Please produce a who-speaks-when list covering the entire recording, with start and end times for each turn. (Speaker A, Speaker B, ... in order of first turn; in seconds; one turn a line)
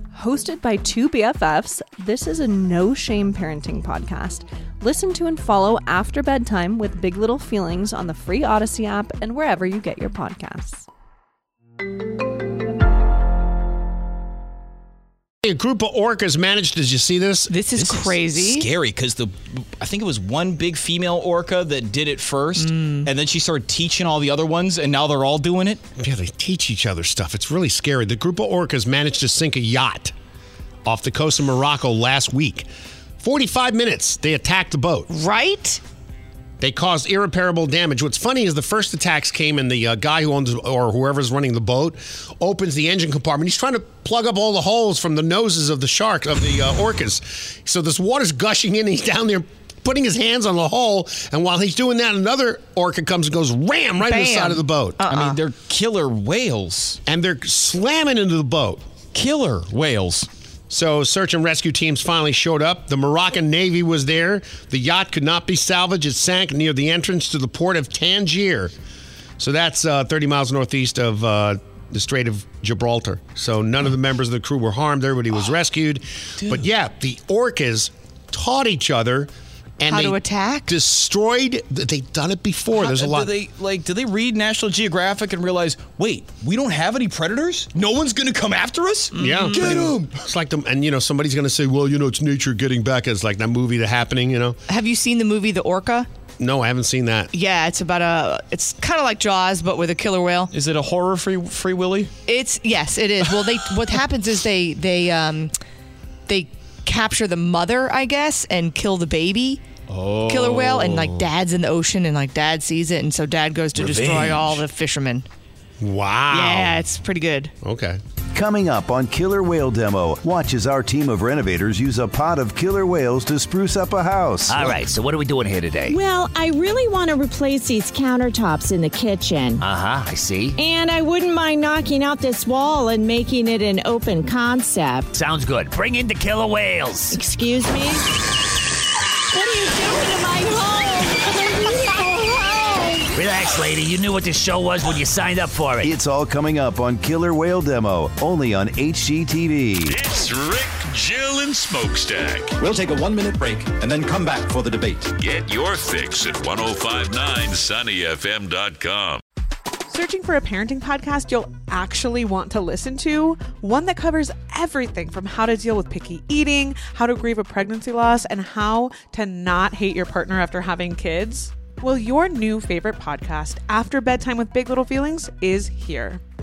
Speaker A: 0.1-10.8
Speaker B: 15.4-17.5
Speaker C: 17.5-18.7
Speaker D: 17.7-25.8
Speaker C: 22.6-23.0
Speaker B: 26.0-30.1
Speaker B: 30.9-32.7
Speaker B: 33.2-35.1
Speaker C: 35.1-35.8
Speaker B: 36.6-55.0
Speaker C: 54.0-55.4
Speaker D: 55.0-57.0
Speaker B: 57.0-58.8
Speaker D: 59.1-60.3
Speaker B: 60.7-68.7
Speaker B: 69.4-83.3
Speaker D: 76.4-76.7
Speaker C: 79.9-80.7
Speaker D: 82.7-90.1
Speaker B: 89.1-94.6
Speaker C: 89.2-89.7
Speaker C: 94.7-96.1
Speaker B: 96.4-97.3
Speaker C: 97.3-100.5
Speaker D: 100.5-102.1
Speaker C: 102.2-105.5
Speaker C: 106.3-109.6
Speaker D: 109.9-111.3
Speaker C: 110.2-115.2
Speaker E: 113.8-114.5
Speaker B: 115.8-116.8
Speaker C: 116.3-117.5
Speaker B: 117.6-118.0
Speaker F: 118.3-124.8
Speaker E: 124.5-126.0
Speaker G: 125.9-129.6
Speaker E: 129.6-130.6
Speaker G: 130.6-135.1
Speaker E: 135.1-137.2
Speaker G: 137.1-138.0
Speaker G: 139.4-143.1
Speaker E: 143.1-145.9
Speaker F: 145.8-150.0
Speaker H: 149.9-152.5
Speaker I: 152.6-155.1
Speaker H: 155.2-159.2
Speaker J: 159.9-176.2